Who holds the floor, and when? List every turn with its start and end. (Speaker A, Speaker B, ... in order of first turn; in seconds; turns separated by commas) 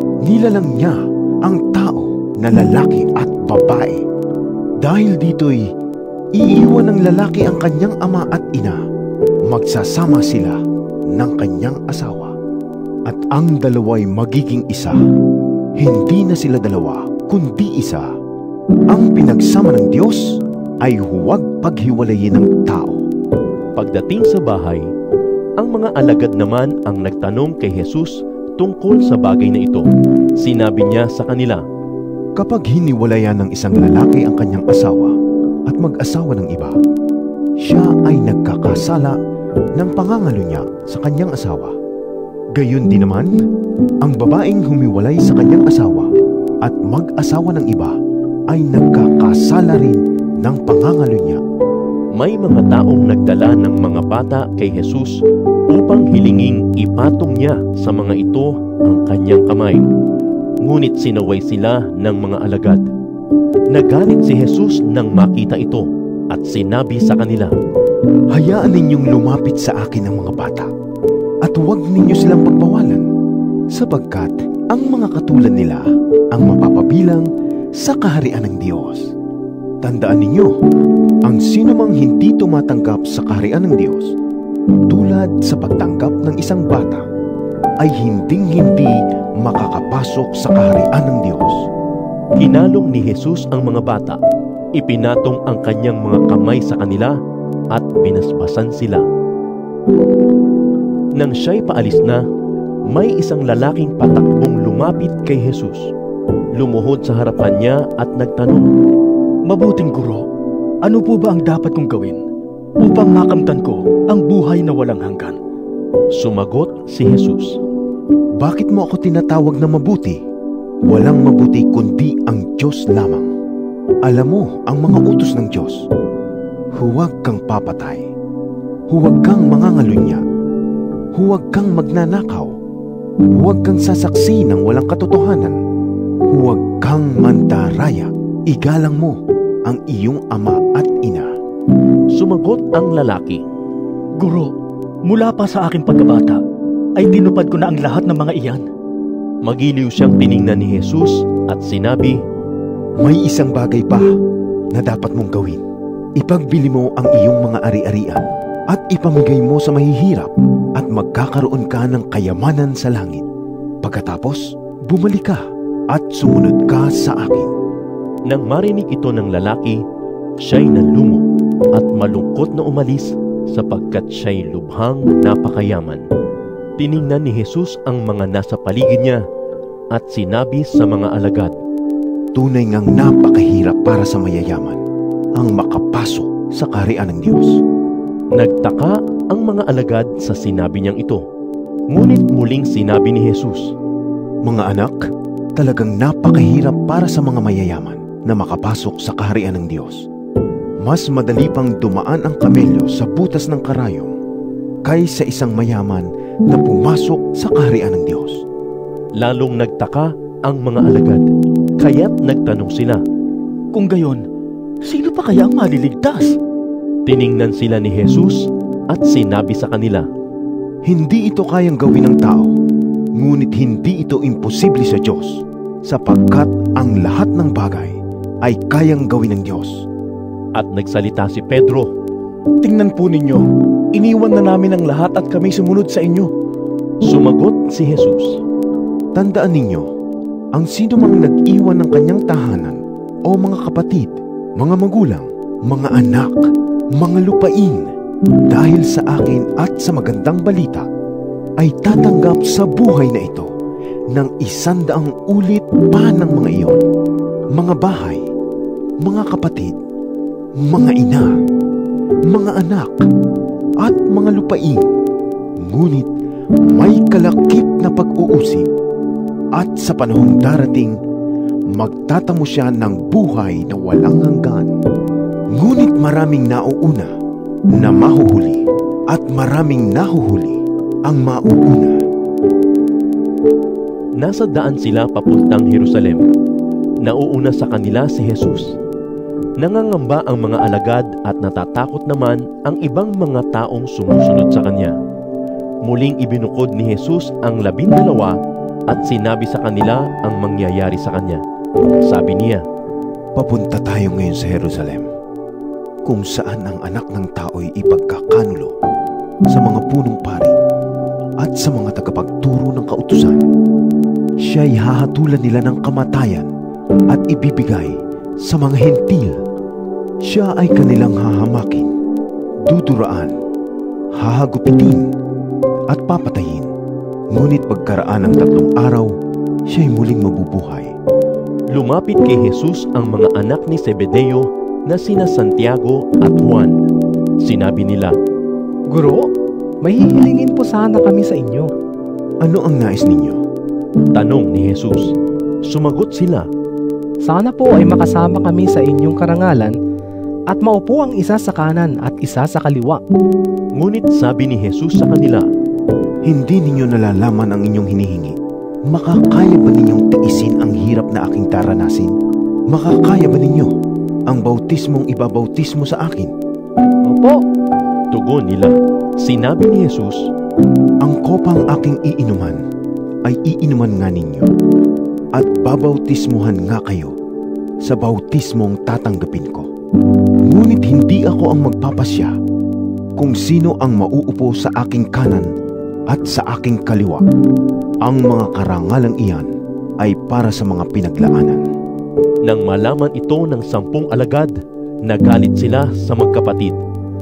Speaker A: 0.2-4.0, Speaker A: 4.8-5.7, Speaker A: 6.3-8.8, Speaker A: 9.5-10.6, Speaker A: 11.1-12.3, Speaker A: 13.1-14.9, Speaker A: 15.8-18.1, Speaker A: 18.9-23.0, Speaker B: 23.8-24.8, Speaker B: 25.6-29.9, Speaker B: 30.4-31.6, Speaker A: 32.4-35.1, Speaker A: 35.7-36.8, Speaker A: 37.6-39.2, Speaker A: 39.8-41.7, Speaker A: 42.5-43.3, Speaker A: 44.0-46.1, Speaker A: 46.6-48.0, Speaker A: 48.5-51.4, Speaker B: 52.1-59.8, Speaker B: 60.6-62.8, Speaker B: 63.7-67.5, Speaker A: 68.3-70.7, Speaker A: 71.4-73.0, Speaker A: 73.7-79.1, Speaker A: 79.8-80.5, Speaker A: 81.2-84.1, Speaker A: 84.9-87.0, Speaker A: 87.8-91.7, Speaker B: 92.4-94.2, Speaker B: 94.7-97.2, Speaker B: 97.7-99.0, Speaker B: 101.2-102.2, Speaker B: 102.9-105.9, Speaker B: 106.5-108.7, Speaker C: 109.5-110.2, Speaker C: 110.8-112.2, Speaker C: 112.8-115.4, Speaker B: 116.1-117.6, Speaker A: 118.4-120.2, Speaker A: 120.9-123.3, Speaker A: 124.0-125.8, Speaker A: 126.7-128.0, Speaker A: 128.9-130.2, Speaker A: 131.1-132.5, Speaker A: 133.4-135.6, Speaker A: 136.3-141.3, Speaker B: 142.1-143.4, Speaker C: 144.2-144.5, Speaker C: 145.1-146.4, Speaker C: 147.0-148.6, Speaker B: 149.4-152.2, Speaker A: 153.0-154.0, Speaker A: 154.7-155.6, Speaker A: 156.2-163.2, Speaker A: 163.8-167.5, Speaker B: 168.3-169.8, Speaker B: 170.4-176.0, Speaker B: 176.8-179.2, Speaker B: 179.9-181.5, Speaker A: 182.3-184.8, Speaker A: 185.4-187.6, Speaker B: 188.3-191.2, Speaker B: 191.9-193.7, Speaker A: 194.4-195.0, Speaker A: 195.6-200.1, Speaker A: 200.8-204.1, Speaker A: 204.8-208.4, Speaker B: 209.2-211.3, Speaker B: 211.8-213.0, Speaker C: 213.7-214.2, Speaker C: 214.8-216.4, Speaker B: 217.1-220.1, Speaker A: 220.8-222.5, Speaker A: 223.2-229.8, Speaker B: 230.5-231.9, Speaker D: 232.6-236.3, Speaker B: 237.1-238.4, Speaker A: 239.1-239.9, Speaker A: 240.5-246.4, Speaker A: 247.0-247.9, Speaker A: 248.5-250.9, Speaker A: 251.6-253.5, Speaker A: 254.1-256.8, Speaker A: 257.5-258.2, Speaker A: 259.0-259.8, Speaker A: 260.6-261.3, Speaker A: 262.3-263.0, Speaker A: 263.8-264.9, Speaker A: 265.6-266.1, Speaker A: 266.7-268.7, Speaker A: 269.6-270.9, Speaker A: 271.7-274.7, Speaker A: 275.5-277.1, Speaker A: 277.8-282.0, Speaker B: 284.2-286.2, Speaker B: 287.0-288.8, Speaker B: 289.6-294.9, Speaker B: 295.8-298.4, Speaker B: 298.9-301.4, Speaker B: 302.0-302.6, Speaker A: 303.4-305.1, Speaker A: 306.0-308.7, Speaker A: 309.5-310.5, Speaker A: 311.4-313.4, Speaker A: 314.4-316.5, Speaker A: 317.1-319.4, Speaker A: 320.2-321.9, Speaker A: 322.7-323.3, Speaker A: 324.2-325.1, Speaker A: 325.9-326.7, Speaker A: 327.3-329.1, Speaker A: 329.7-330.9, Speaker B: 331.7-336.8, Speaker B: 337.4-338.1, Speaker E: 338.9-339.2, Speaker E: 339.8-341.7, Speaker A: 342.4-343.4, Speaker B: 344.1-345.1, Speaker B: 345.7-346.5, Speaker E: 347.2-349.7, Speaker E: 350.5-353.0, Speaker B: 353.8-355.5, Speaker A: 356.2-358.4, Speaker A: 358.9-362.1, Speaker A: 362.7-363.7, Speaker A: 364.3-366.3, Speaker E: 367.0-367.4, Speaker B: 368.1-370.3, Speaker A: 371.0-372.6, Speaker A: 373.2-374.5, Speaker A: 375.3-377.1, Speaker A: 377.8-379.7, Speaker A: 380.5-382.3, Speaker A: 383.2-385.5, Speaker A: 386.1-387.2, Speaker A: 388.0-391.6, Speaker B: 392.4-396.8